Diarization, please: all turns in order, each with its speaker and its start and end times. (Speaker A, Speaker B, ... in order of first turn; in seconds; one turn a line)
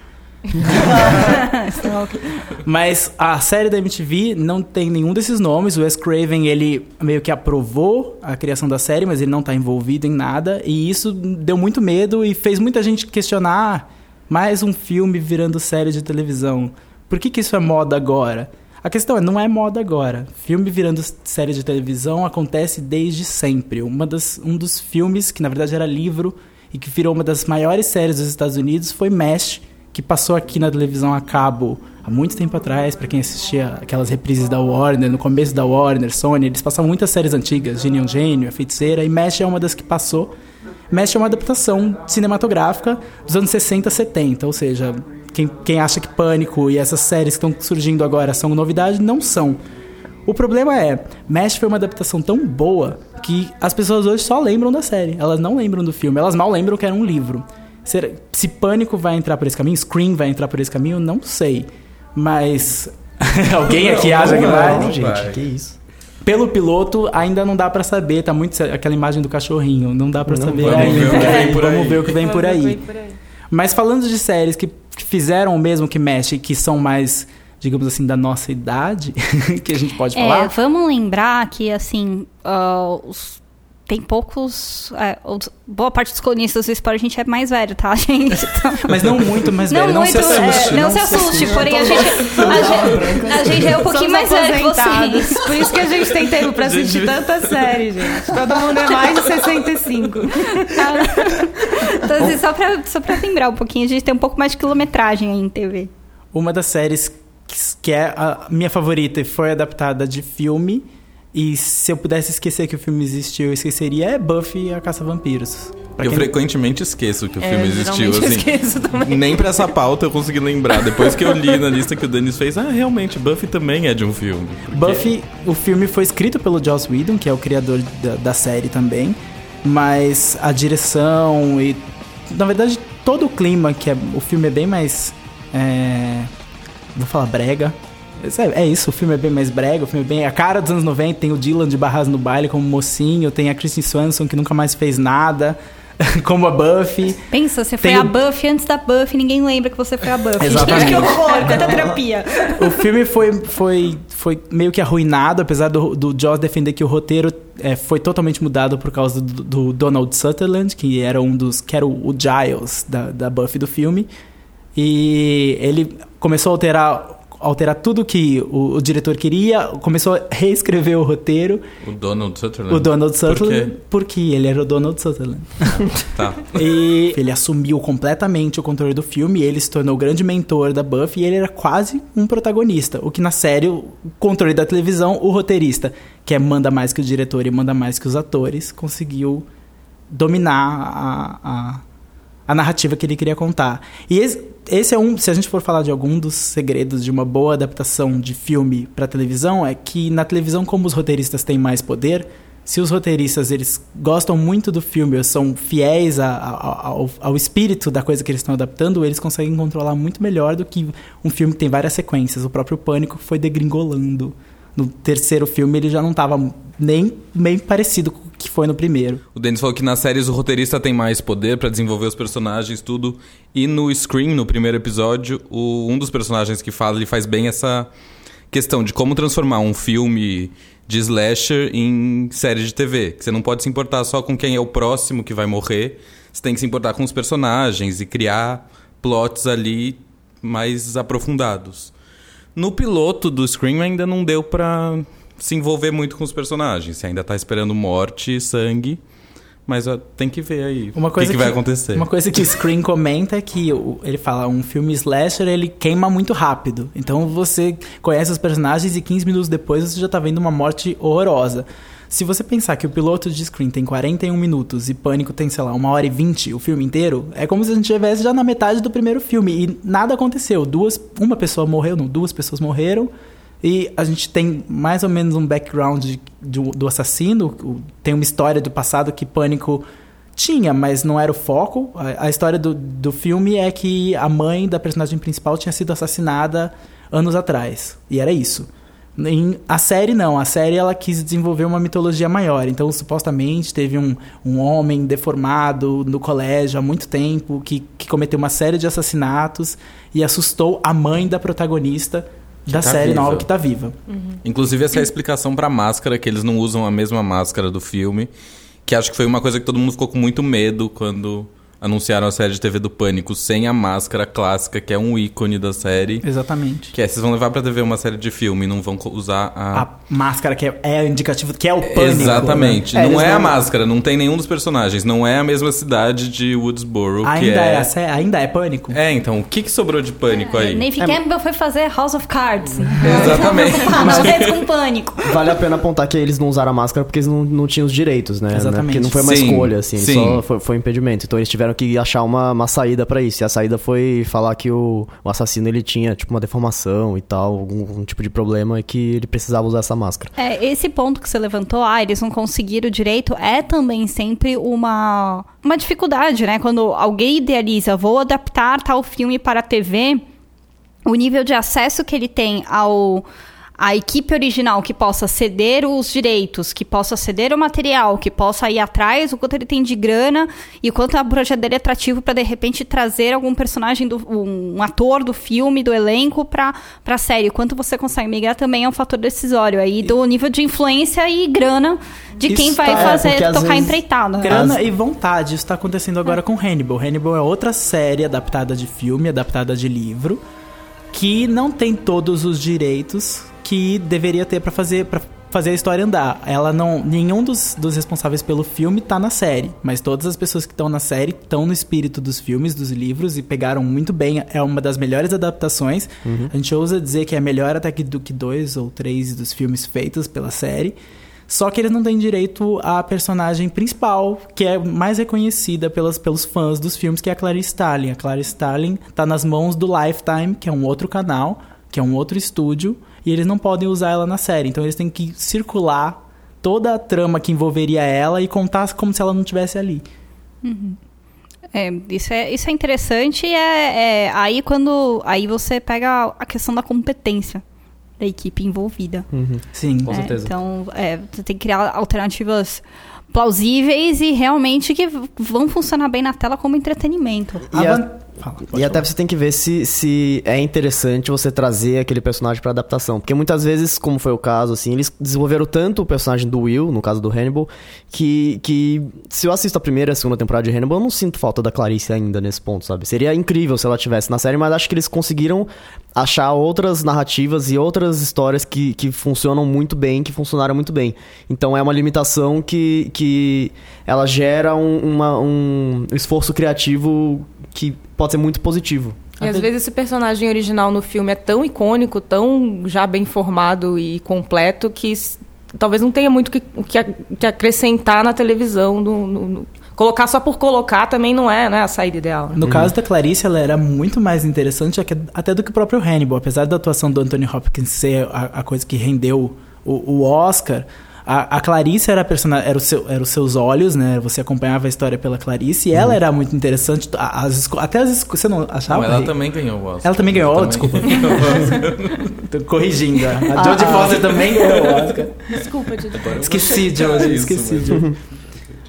Speaker A: 0.7-1.9
Speaker B: 1.0-2.4
Speaker A: 2.5-40.3
Speaker A: 40.9-49.6
Speaker A: 50.3-65.0
Speaker C: 63.7-65.4
Speaker D: 64.0-65.8
Speaker A: 66.2-72.8
Speaker D: 70.3-71.1
Speaker C: 70.6-72.2
Speaker E: 71.1-71.5
Speaker E: 72.1-73.2
Speaker A: 73.5-80.5
Speaker B: 80.2-95.7
Speaker A: 88.8-91.9
Speaker D: 91.1-93.8
Speaker E: 91.9-92.8
Speaker E: 93.5-101.2
Speaker C: 96.5-98.3
Speaker D: 98.4-98.7
Speaker B: 100.7-105.9
Speaker A: 106.3-116.3
Speaker C: 116.0-125.1
Speaker E: 117.4-119.7
Speaker E: 120.7-121.5
Speaker A: 124.7-136.3
Speaker A: 136.9-147.2
Speaker B: 147.3-152.8
Speaker A: 147.8-148.1
Speaker A: 150.4-151.6
Speaker D: 151.3-152.0
Speaker A: 152.6-164.1
Speaker A: 164.8-171.6
Speaker C: 171.8-173.7
Speaker A: 172.7-175.9
Speaker C: 175.7-176.6
Speaker A: 176.5-189.4
Speaker A: 190.1-191.8
Speaker A: 192.5-219.2
Speaker C: 219.3-227.9
Speaker C: 228.5-241.9
Speaker C: 242.6-249.0
Speaker C: 249.7-252.1
Speaker A: 250.9-273.1
Speaker A: 273.6-279.9
Speaker A: 280.4-303.9
Speaker C: 302.7-303.5
Speaker E: 304.1-304.4
Speaker C: 304.4-308.3
Speaker C: 308.9-316.3
Speaker A: 316.2-316.9
Speaker C: 316.9-319.9
Speaker A: 319.7-322.8
Speaker C: 321.8-327.9
Speaker D: 322.9-323.6
Speaker A: 327.2-329.0
Speaker C: 328.9-330.9
Speaker B: 330.3-335.4
Speaker C: 332.8-334.6
Speaker D: 335.3-350.3
Speaker A: 338.5-339.3
Speaker C: 339.2-340.4
Speaker B: 350.4-360.2
Speaker B: 361.1-363.3
Speaker B: 363.8-384.6
Speaker A: 382.5-383.3
Speaker D: 382.8-384.8
Speaker A: 384.4-390.4
Speaker A: 391.1-411.0
Speaker D: 406.2-406.5
Speaker A: 411.5-430.1
Speaker B: 430.6-431.0
Speaker B: 431.7-437.6
Speaker B: 438.2-439.3
Speaker D: 439.3-440.5
Speaker A: 439.7-440.2
Speaker B: 440.1-447.7
Speaker A: 447.7-449.1
Speaker D: 447.7-448.1
Speaker D: 448.7-479.2
Speaker A: 479.4-479.7
Speaker E: 479.4-492.6
Speaker A: 492.6-509.4
Speaker D: 492.6-492.9
Speaker C: 508.9-512.3
Speaker A: 510.0-511.8
Speaker A: 512.4-515.5
Speaker B: 513.6-514.2
Speaker E: 513.6-514.0
Speaker E: 515.5-516.5
Speaker C: 516.1-518.1
Speaker A: 516.4-518.1